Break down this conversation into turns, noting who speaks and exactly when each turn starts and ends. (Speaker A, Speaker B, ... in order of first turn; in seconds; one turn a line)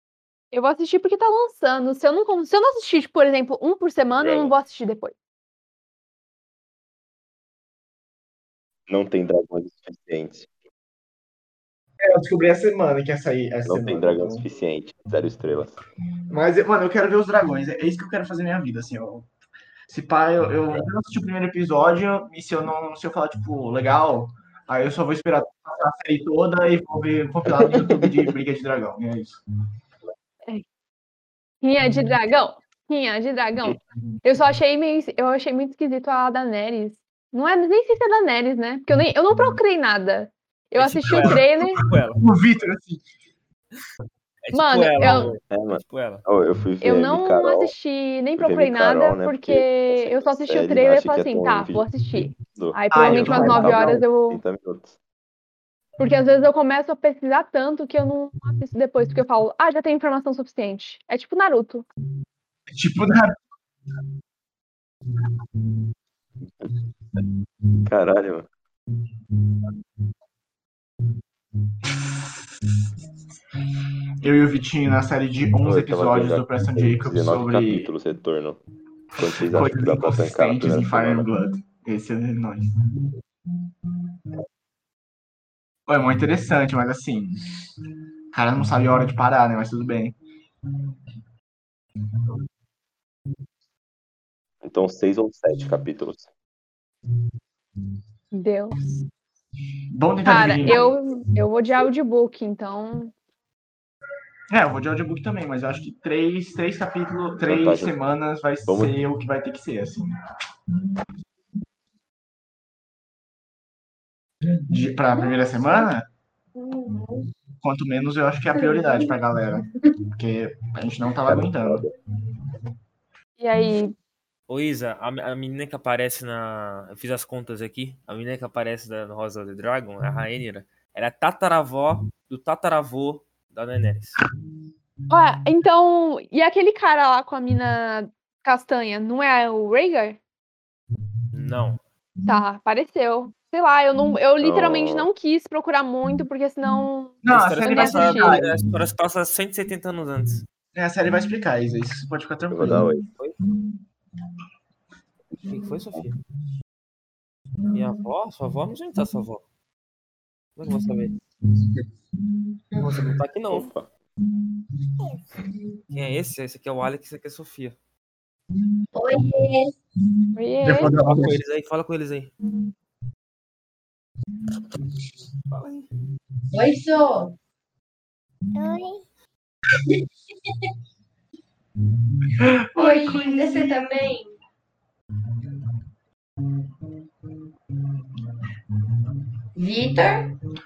Speaker A: 0.5-5.1
Speaker B: 4.2-4.6
Speaker B: 8.9-10.5
Speaker C: 12.0-14.4
Speaker B: 13.7-15.8
Speaker C: 16.3-19.3
Speaker C: 19.9-29.4
Speaker A: 31.6-41.8
Speaker D: 40.8-42.2
Speaker C: 41.1-43.0
Speaker D: 44.4-46.2
Speaker A: 44.5-45.3
Speaker B: 45.5-47.7
Speaker A: 46.8-54.4
Speaker B: 48.4-55.0
Speaker C: 52.9-54.0
Speaker A: 56.0-61.9
Speaker C: 62.7-63.4
Speaker B: 67.9-68.5
Speaker C: 71.9-72.3
Speaker C: 74.2-77.9
Speaker B: 75.6-78.6
Speaker B: 79.2-81.3
Speaker C: 79.2-83.0
Speaker C: 85.9-87.4
Speaker C: 88.3-90.2
Speaker B: 94.6-96.3
Speaker A: 98.3-98.7
Speaker C: 99.9-100.9
Speaker A: 100.2-103.1
Speaker B: 100.7-100.9
Speaker C: 104.5-110.2
Speaker B: 107.5-108.0
Speaker B: 108.7-109.0
Speaker C: 114.7-116.1
Speaker E: 115.2-115.6
Speaker E: 116.6-117.2
Speaker C: 117.6-121.9
Speaker E: 118.6-118.8
Speaker B: 121.3-121.9
Speaker A: 123.4-124.0
Speaker D: 124.5-134.2
Speaker A: 135.1-140.2
Speaker D: 141.3-141.8
Speaker A: 142.3-148.4
Speaker B: 144.4-145.1
Speaker C: 147.2-148.8
Speaker D: 147.3-150.4
Speaker C: 150.7-153.5
Speaker B: 152.5-153.1
Speaker D: 155.5-156.1
Speaker D: 157.7-159.4
Speaker D: 160.6-161.1
Speaker C: 160.7-161.0
Speaker C: 162.8-163.2
Speaker D: 163.0-163.7
Speaker B: 163.5-163.9
Speaker D: 165.9-167.8
Speaker E: 168.9-169.7
Speaker A: 170.3-171.0
Speaker C: 170.6-171.4
Speaker D: 170.9-172.3
Speaker E: 176.5-177.4
Speaker C: 182.4-184.1
Speaker E: 182.8-184.3
Speaker E: 189.6-190.3